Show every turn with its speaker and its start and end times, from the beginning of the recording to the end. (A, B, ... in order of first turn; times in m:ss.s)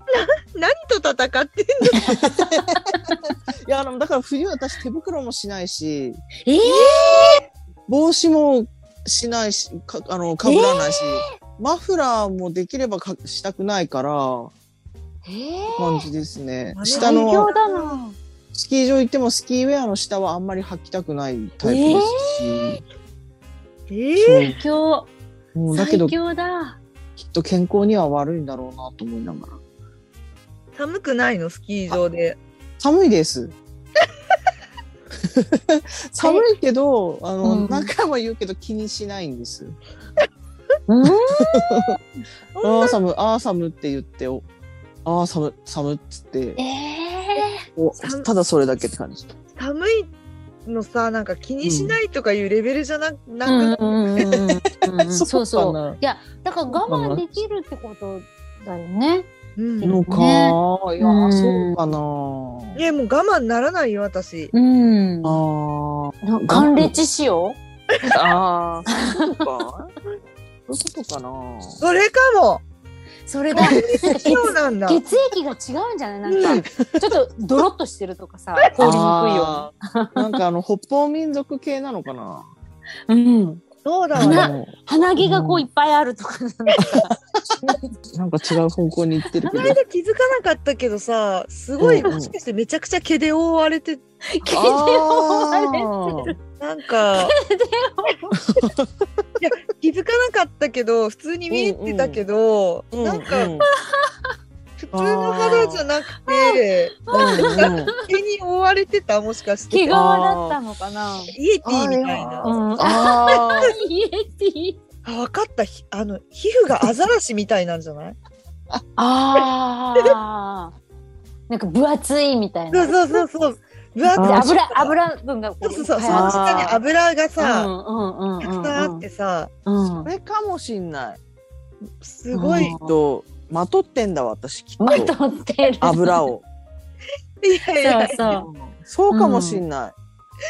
0:00.1-0:02.1 A
0:02.3-0:02.7 B
0:02.8-0:03.1 C
0:03.2-0:06.2 B
0:06.4-0:07.4 C
0:06.6-0:07.4 A
0:07.9-0:14.5 B
0:10.4-0:11.2 C
0:15.2-0:16.1 C
0:15.7-0:17.5 B
0:16.7-0:18.1 A
0:16.9-0:18.1 C
0:18.5-0:22.8 B
0:21.6-0:22.8 C
0:23.9-0:24.5 A
0:24.2-0:24.6 B
0:24.4-0:25.1 C
0:25.5-0:26.2 B
0:25.7-0:26.8 C
0:27.2-0:29.6 B
0:30.8-0:32.4 A
0:32.8-0:33.5 B
0:35.2-0:39.8 B
0:37.4-0:37.9 C
0:40.9-0:41.8 C
0:41.5-0:42.0 B
0:42.6-0:43.0 A
0:42.6-0:44.4 B
0:45.0-0:46.6 B
0:46.6-0:47.6 C
0:47.8-0:49.3 B
0:48.0-0:48.3 A
0:49.6-0:50.1 A
0:50.6-0:54.1 A
0:51.6-0:52.0 B
0:53.4-0:59.3 C
0:55.0-0:56.0 B
0:56.8-0:57.3 B
0:59.6-1:00.0 A
0:59.8-1:02.8 B
0:59.8-1:01.8 C
1:02.8-1:04.5 A
1:04.5-1:05.4 C
1:05.2-1:06.9 B
1:06.2-1:07.6 C
1:08.1-1:09.9 B
1:08.9-1:09.4 C
1:10.7-1:11.8 B
1:11.8-1:12.6 A
1:13.2-1:20.2 C
1:13.5-1:15.0 A
1:13.5-1:14.4 B
1:16.2-1:16.6 A
1:18.8-1:22.5 B
1:23.1-1:23.6 C
1:23.8-1:24.5 A
1:24.1-1:25.7 B
1:24.2-1:27.8 C
1:26.8-1:27.0 B
1:27.6-1:29.8 B
1:29.5-1:34.0 A
1:31.8-1:32.3 B
1:34.3-1:36.4 C
1:34.5-1:36.3 B
1:36.6-1:37.4 A
1:37.2-1:38.4 C
1:38.6-1:39.2 B
1:39.4-1:43.5 A
1:41.5-1:42.2 B
1:42.9-1:43.7 B
1:43.7-1:44.3 C
1:44.8-1:49.9 A
1:44.9-1:45.8 B
1:46.2-1:48.1 C
1:47.1-1:47.9 B
1:49.7-1:51.3 C
1:49.9-1:50.6 B
1:51.3-1:52.6 A
1:51.6-1:53.8 B
1:52.4-1:54.8 C
1:55.0-1:58.2 A
1:59.0-2:00.7 C
2:01.5-2:03.2 C
2:02.7-2:05.0 A
2:04.0-2:06.8 C
2:04.2-2:04.5 B
2:05.6-2:07.7 A
2:06.1-2:06.8 B
2:07.4-2:09.0 C
2:08.4-2:09.5 A
2:09.6-2:10.1 C
2:10.0-2:11.2 B
2:12.0-2:12.7 A
2:12.3-2:13.0 C
2:12.7-2:15.1 B
2:14.8-2:16.2 C
2:15.8-2:16.4 B
2:17.4-2:18.2 A
2:17.8-2:18.5 C
2:18.2-2:19.9 B
2:19.1-2:19.6 C